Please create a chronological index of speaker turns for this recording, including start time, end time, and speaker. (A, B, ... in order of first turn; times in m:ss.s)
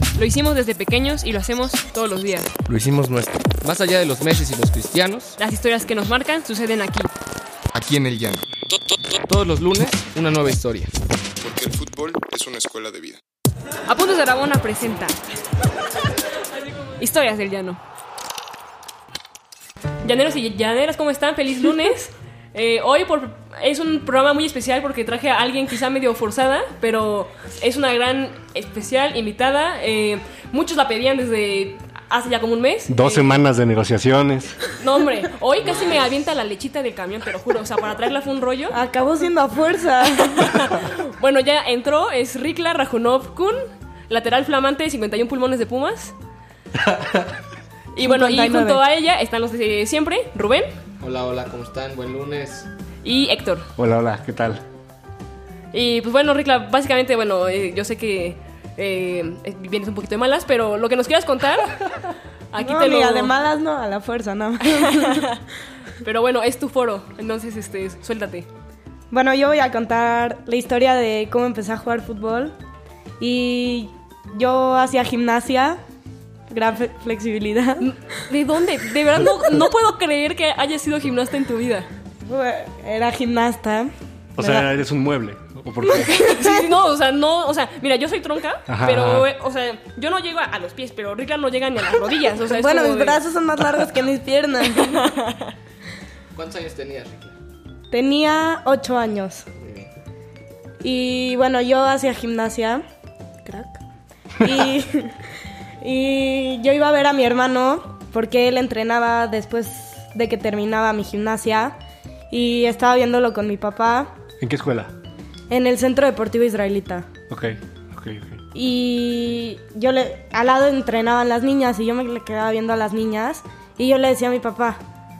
0:00.2-0:02.5 A
0:02.7-0:05.4 B
0:05.4-0:07.1 A
0:07.7-0:08.4 C
0:09.2-0:10.9 B
0:11.4-0:13.2 C
0:13.9-0:15.2 A
0:17.0-0:17.8 A
0:20.0-0:33.3 A
0:32.9-0:34.6 D
0:34.8-0:38.7 A
0:38.7-0:40.5 E
0:40.3-0:46.1 A
0:46.8-0:47.2 D
0:47.9-0:50.7 A
0:48.0-0:48.8 E
0:51.0-0:52.7 B
0:53.0-0:53.7 A
0:53.8-0:54.6 D
0:55.7-1:01.8 A
1:02.5-1:03.3 A
1:02.6-1:05.3 E
1:04.7-1:05.4 A
1:06.0-1:08.5 A
1:09.1-1:12.5 E
1:13.2-1:15.8 E
1:16.5-1:17.9 E
1:17.8-1:21.9 A
1:22.3-1:24.6 E
1:24.4-1:26.1 D
1:25.8-1:33.2 A
1:26.1-1:26.6 E
1:28.7-1:29.3 D
1:32.5-1:35.1 E
1:34.7-1:35.5 A
1:36.3-1:37.3 B
1:37.9-1:39.4 E
1:39.6-1:39.9 B
1:40.8-1:42.8 E
1:43.4-1:43.8 E
1:44.4-1:45.1 E
1:45.8-1:51.8 E
1:52.3-1:54.1 E
1:54.4-1:54.9 D
1:55.5-1:57.1 E
1:57.3-1:58.4 D
1:58.5-2:04.8 E